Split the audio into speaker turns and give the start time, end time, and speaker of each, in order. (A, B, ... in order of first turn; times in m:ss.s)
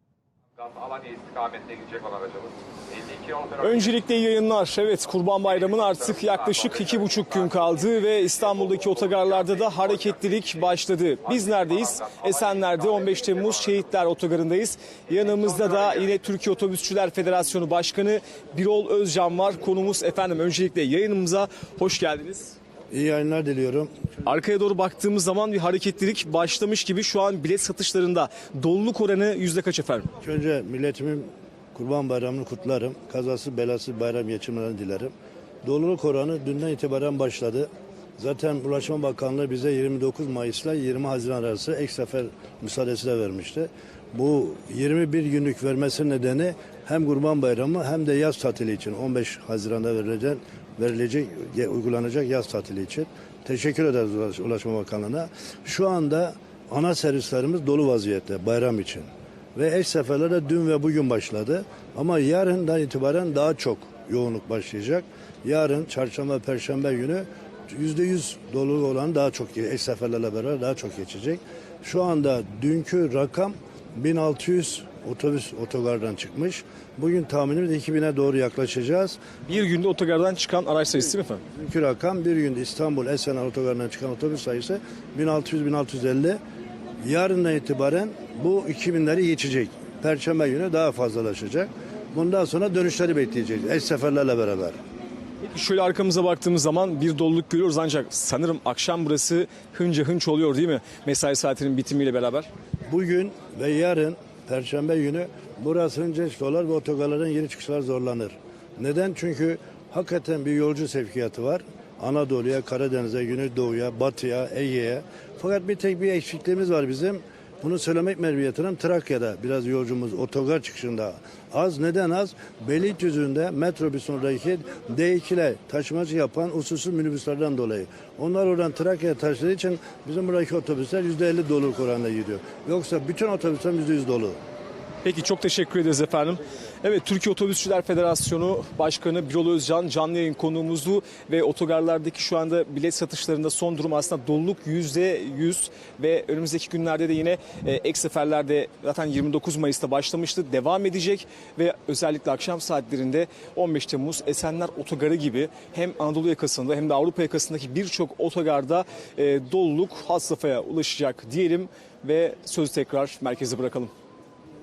0:00.6-0:03.7 A
0:03.6-0:22.6 B
0:06.5-0:07.2 A
0:09.2-0:09.8 A
0:11.4-0:12.8 A
0:22.9-0:23.9 C
0:24.2-0:30.1 B
0:30.2-0:35.1 C
0:35.6-1:19.2 C
1:19.5-1:21.4 B
1:21.5-1:26.4 C
1:27.0-1:34.8 C
1:35.5-1:42.5 B
1:42.9-2:14.4 C
2:15.0-2:43.9 B